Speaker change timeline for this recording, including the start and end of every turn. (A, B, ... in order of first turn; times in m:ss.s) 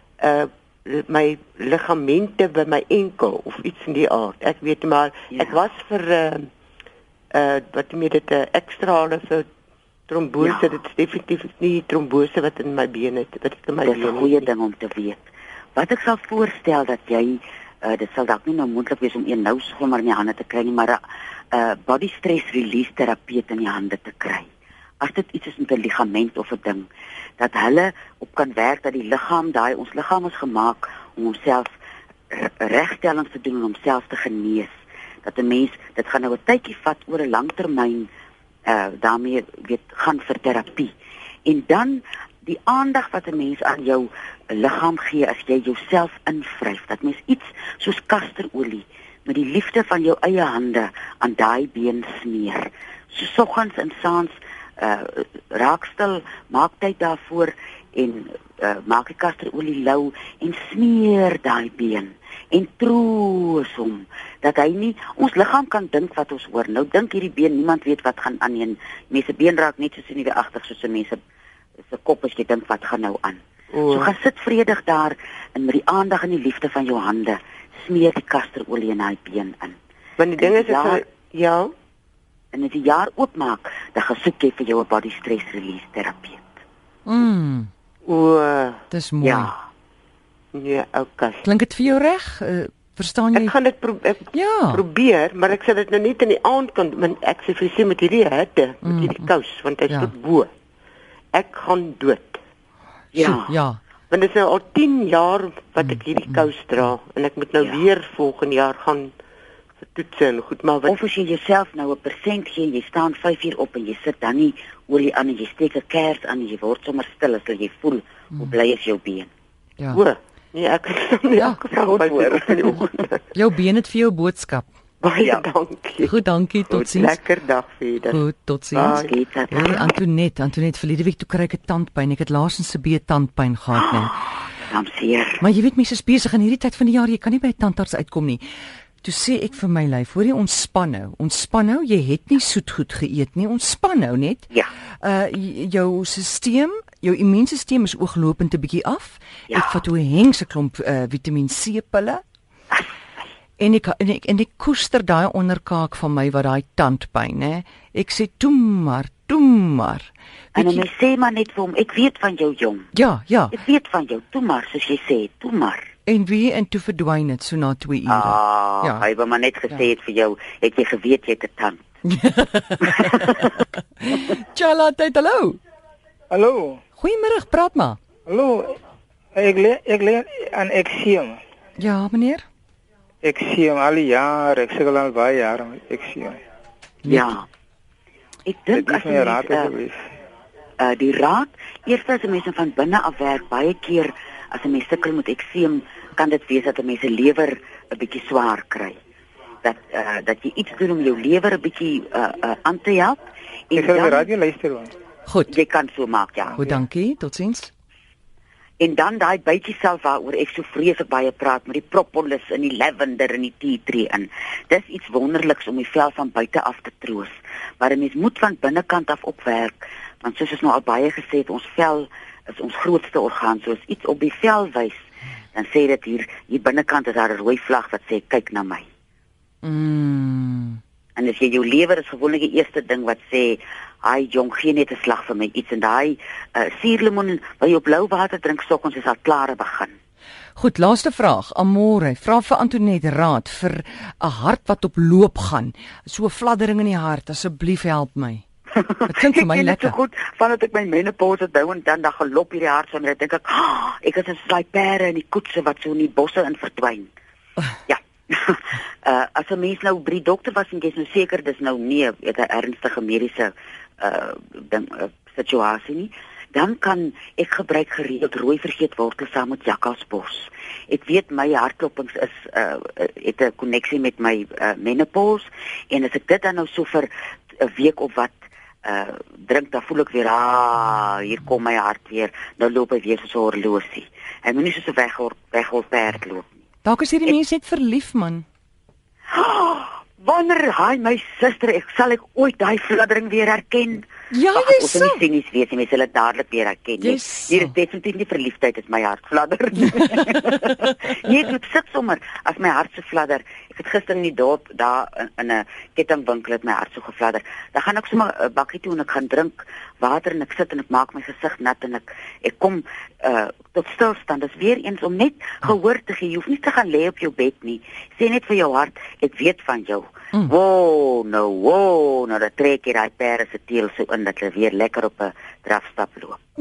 0:00.2-0:06.5 A
0:07.3-0:09.5 A
0:10.1-0:14.5 A
0:10.4-0:10.7 B
0:13.8-0:21.0 B
0:21.5-0:24.5 B
0:25.0-0:26.9 B
0:27.4-0:31.8 B
0:32.3-0:34.7 B
0:35.2-0:38.1 B
0:38.7-0:40.9 B
0:41.5-1:11.2 B
1:11.9-1:13.4 B
1:13.7-1:14.1 A
1:13.9-1:19.8 B
1:20.2-1:21.7 A
1:20.4-1:21.0 B
1:22.5-1:26.4 B
1:27.1-1:27.7 C
1:28.0-1:28.8 A
1:28.9-1:29.5 C
1:29.2-1:29.5 B
1:30.5-1:31.4 A
1:31.4-1:33.6 C
1:33.3-1:40.5 A
1:34.3-1:34.8 C
1:38.8-1:39.2 C
1:41.3-1:42.4 A
1:43.1-1:43.6 B
1:43.2-1:43.8 C
1:44.1-1:49.1 A
1:49.8-1:51.0 A
1:50.9-1:59.3 B
1:59.9-2:03.1 A
2:01.7-2:02.9 B
2:03.3-2:04.7 C
2:05.0-2:06.1 A
2:05.2-2:05.5 B
2:06.0-2:07.2 C
2:06.7-2:09.2 A
2:08.1-2:14.2 C
2:08.9-2:09.9 B
2:13.7-2:14.1 B
2:14.6-2:15.4 B
2:15.4-2:18.4 C
2:19.0-2:24.5 C
2:25.0-2:32.2 C
2:29.5-2:29.8 B
2:32.7-2:33.2 B
2:33.6-2:40.8 C
2:40.6-2:42.9 B
2:42.9-2:43.6 C
2:43.5-2:45.9 B
2:46.1-2:49.0 C
2:48.1-2:51.8 B
2:52.1-2:55.6 C
2:56.3-2:56.8 D
2:57.0-2:58.0 C
2:58.3-2:58.8 D
2:59.4-3:01.4 D
3:01.8-3:02.4 C
3:03.2-3:06.4 D
3:07.0-3:07.5 B
3:08.5-3:09.8 B
3:08.7-3:10.0 D
3:10.8-3:19.0 B
3:19.6-3:23.2 B
3:23.7-3:24.3 B
3:23.7-3:24.9 D
3:25.3-3:25.5 C
3:25.5-3:26.6 B
3:26.5-3:27.7 C
3:28.8-3:48.9 B
3:49.6-3:50.8 C
3:51.2-3:59.9 B
4:00.6-4:08.4 C
4:08.8-4:17.1 B
4:09.1-4:10.0 C
4:17.9-4:46.5 B
4:46.8-4:48.4 C
4:49.3-5:26.4 B
4:54.3-4:55.2 C
4:57.0-4:57.7 C
5:00.0-5:00.7 C